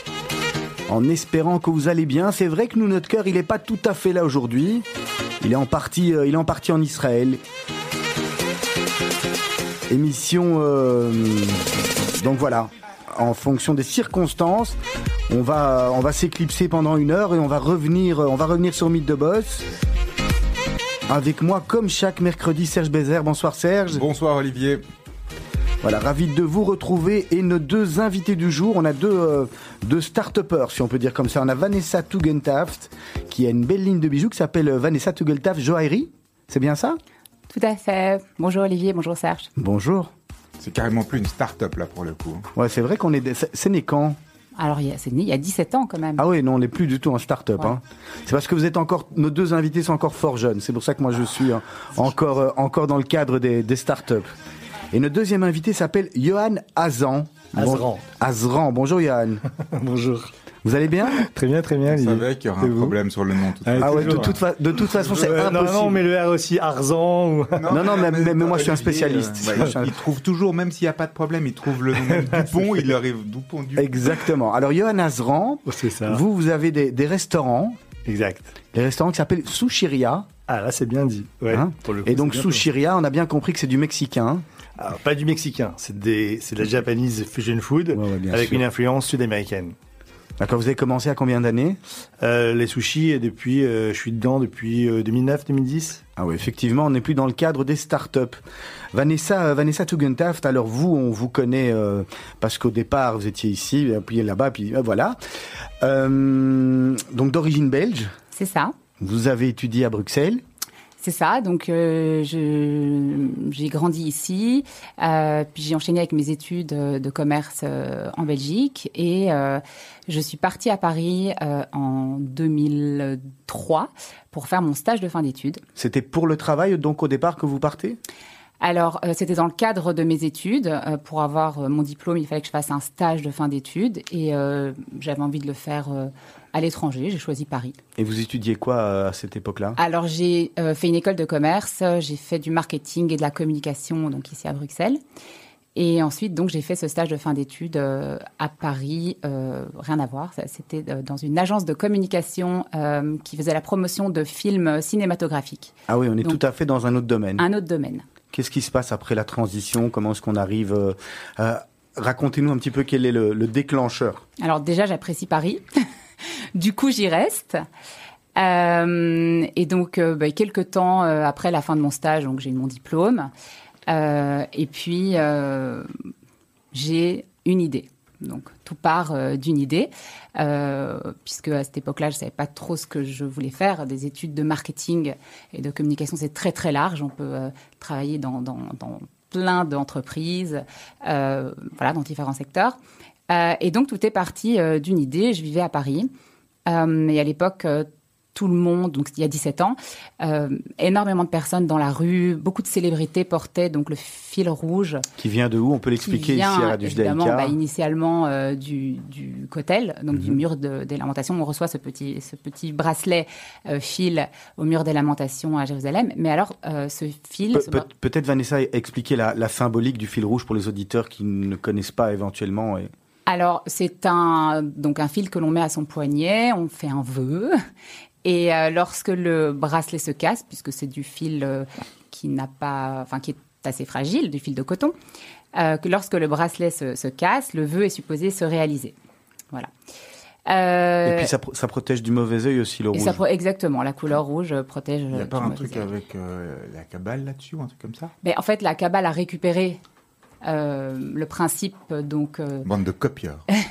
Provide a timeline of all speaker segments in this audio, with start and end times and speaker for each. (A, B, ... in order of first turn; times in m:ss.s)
0:00.9-0:04.8 A
0:05.4-0:07.4 A
0:09.9-0:11.6 A
0:12.2-0:14.8 A
0:15.3-0:19.6 A
0:21.1-0:24.0 A
0:23.9-0:24.8 B
0:25.8-0:37.0 A
0:37.5-0:39.5 C
0:39.6-0:40.1 A
0:40.6-0:42.5 B
0:42.6-0:44.2 A
0:44.6-0:46.2 C
0:46.2-0:54.3 A
0:54.9-0:59.4 A
0:57.5-0:58.0 D
0:59.7-1:00.3 D
1:00.6-1:01.2 A
1:01.1-1:07.8 D
1:01.9-1:04.4 B
1:03.7-1:06.0 A
1:05.0-1:05.4 B
1:07.6-1:14.0 B
1:07.7-1:10.0 A
1:09.5-1:09.9 D
1:12.0-1:12.9 D
1:13.8-1:17.8 A
1:15.7-1:16.2 D
1:18.1-1:18.5 D
1:18.7-1:20.3 A
1:20.5-1:22.7 D
1:21.5-1:24.4 A
1:24.8-1:29.8 D
1:27.9-1:28.6 A
1:30.4-1:31.8 A
1:32.2-1:36.0 D
1:36.2-1:38.4 A
1:38.9-1:45.2 A
1:45.8-1:48.1 A
1:48.4-1:48.8 C
1:49.0-1:50.4 A
1:51.0-2:05.6 C
2:05.8-2:08.0 A
2:08.6-2:17.8 C
2:18.0-2:19.8 A
2:19.8-2:25.0 C
2:25.8-2:36.4 C
2:35.9-2:37.4 A
2:37.4-2:38.0 C
2:38.3-2:44.2 A
2:44.4-2:45.6 C
2:46.6-2:47.6 C
2:48.4-2:53.3 C
2:53.9-2:55.9 C
2:56.7-3:12.8 C
3:13.3-3:16.1 C
3:16.7-3:25.0 C
3:25.2-3:27.6 A
3:26.0-3:37.8 C
3:37.5-3:42.9 A
3:43.3-3:47.6 C
3:48.2-3:55.0 C
3:55.6-3:59.0 C
4:00.5-4:01.3 C
4:01.0-4:03.2 A
4:02.9-4:05.9 C
4:05.1-4:08.1 B
4:08.2-4:09.8 C
4:10.4-4:12.7 C
4:12.6-4:13.4 B